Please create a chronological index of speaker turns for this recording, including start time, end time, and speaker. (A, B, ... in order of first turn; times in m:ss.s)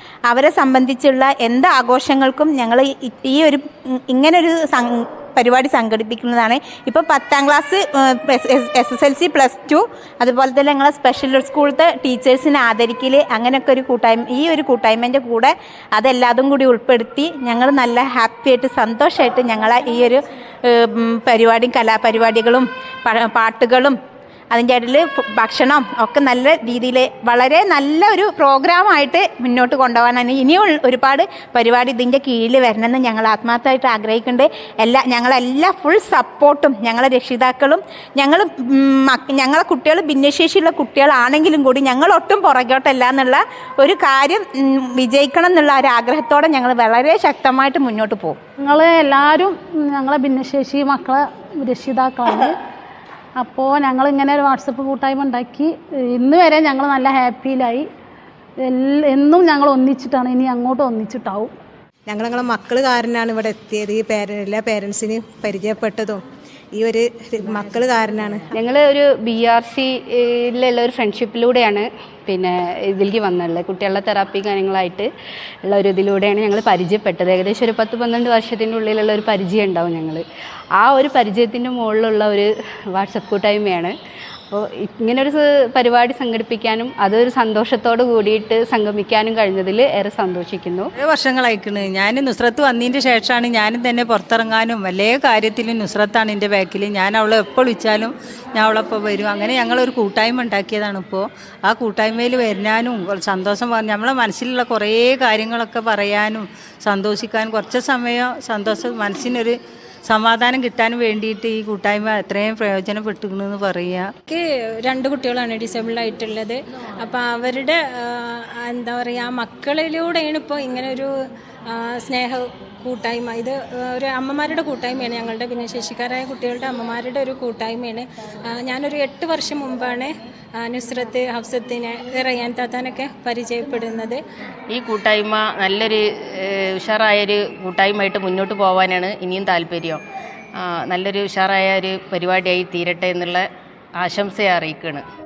0:00.3-0:24.0 A
0:24.5-0:48.4 A
0:48.6-0:52.6 B
0:53.4-0:57.9 B
0:58.6-1:01.5 B
1:02.1-1:06.2 C
1:06.7-1:08.5 C
1:08.6-1:15.1 D
1:15.6-1:20.2 D
1:20.8-1:24.0 D
1:24.5-1:30.9 D
1:31.0-1:54.1 E
1:54.3-2:01.1 F
2:01.7-2:14.2 F
2:14.7-2:20.0 G
2:20.6-2:23.5 G
2:24.0-2:25.0 G